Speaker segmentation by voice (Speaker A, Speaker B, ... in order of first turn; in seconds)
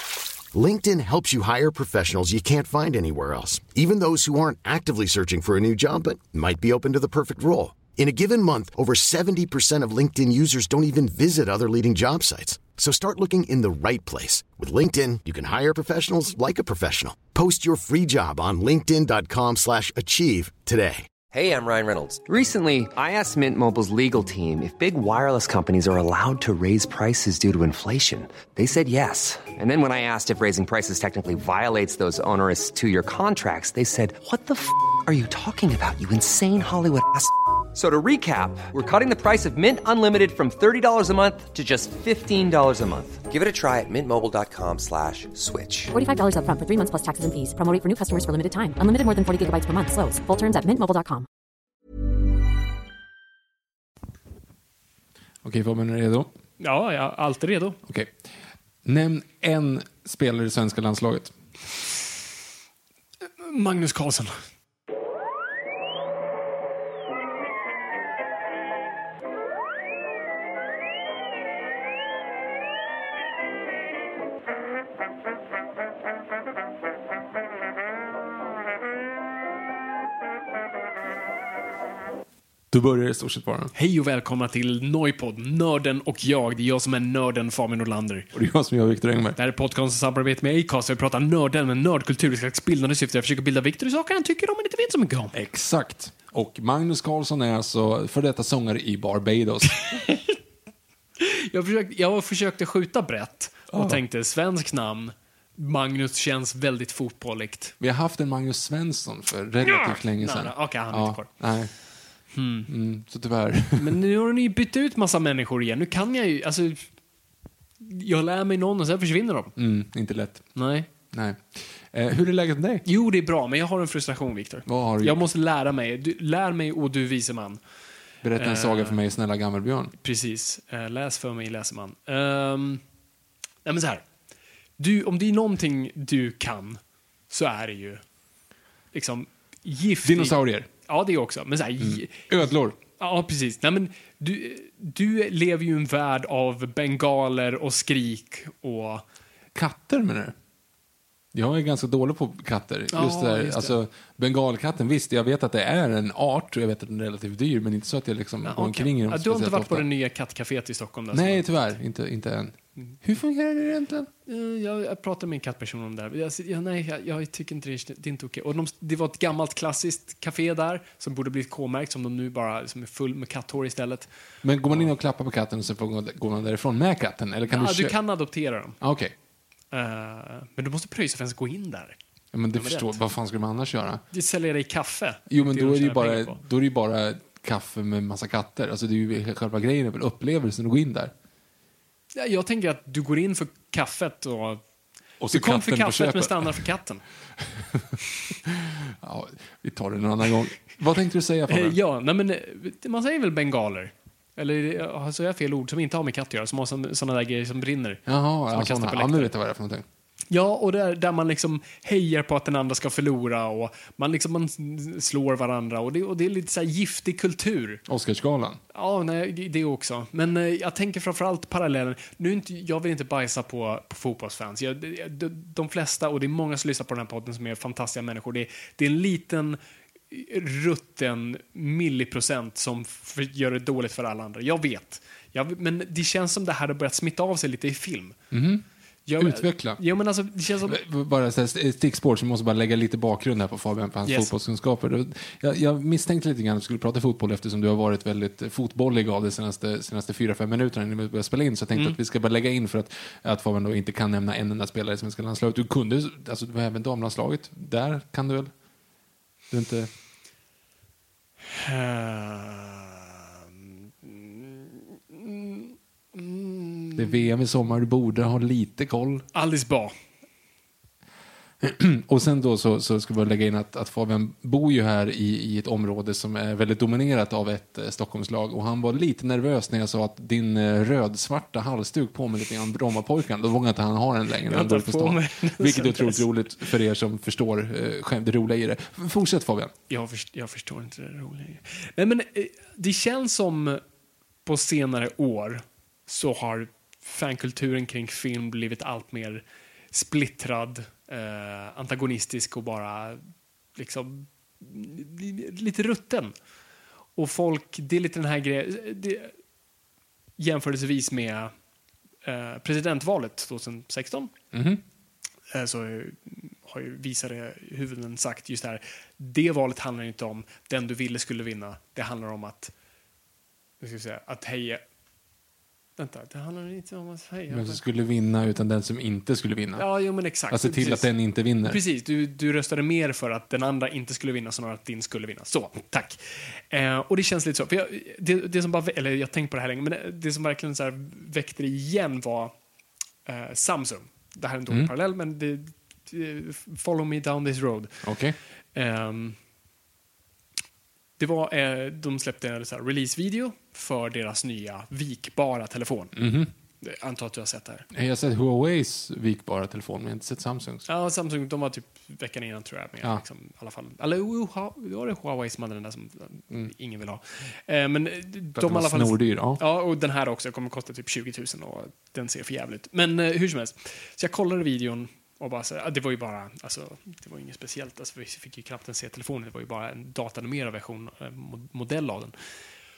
Speaker A: 0.5-21.1
Speaker B: 21.3-45.9
Speaker C: 45.9-51.2
Speaker D: 55.4-56.3, 57.9-58.2, 58.8-61.3, 82.7-83.7, 88.3-89.4, 95.3-100.0, 103.7-104.0, 107.8-112.0, 112.7-114.0, 119.5-122.8, 124.7-125.2, 128.2-129.9, 140.0-140.7, 141.8-142.8, 149.5-150.3, 151.3-159.8, 161.1-164.1, 174.4-178.0, 178.8-179.1, 182.3-184.0, 185.3-191.1, 195.2-196.6, 197.4-197.9, 198.4-201.8, 208.1-209.8, 217.8-218.6, 238.3-238.7, 239.2-239.8, 240.6-258.5, 259.5-259.9, 266.9-269.3, 271.6-289.7, 314.5-314.8, 327.5-331.8, 348.0-348.4, 356.1-356.5, 357.9-360.9, 368.5-369.6
Speaker E: 56.6-57.8, 63.4-64.4, 83.7-88.3, 89.3-95.3, 99.9-100.3, 101.2-107.7, 109.6-111.3, 112.3-112.7, 113.8-116.9, 117.8-119.5, 120.5-120.9, 122.8-127.6, 128.3-129.0, 130.0-132.8, 133.6-134.1, 134.8-138.0, 138.9-149.0, 152.9-153.8, 158.4-161.8, 164.3-174.1, 177.5-178.8, 179.7-182.0, 182.5-182.9, 184.1-186.4, 192.1-194.6, 195.3-197.0, 201.5-209.3, 210.3-217.8, 218.7-229.6, 230.1-238.2, 239.1-240.8, 244.1-244.3, 261.4-262.9, 264.0-267.2, 269.3-270.0, 284.5-286.2, 289.9-293.8, 294.4-303.2, 303.7-306.3, 307.1-309.3, 310.4-311.5, 312.2-314.3, 315.5-322.7, 323.8-324.8, 326.0-327.8, 329.8-331.1, 331.6-342.6, 343.2-348.1, 348.7-349.4, 351.2-356.2, 356.8-357.9, 360.9-382.3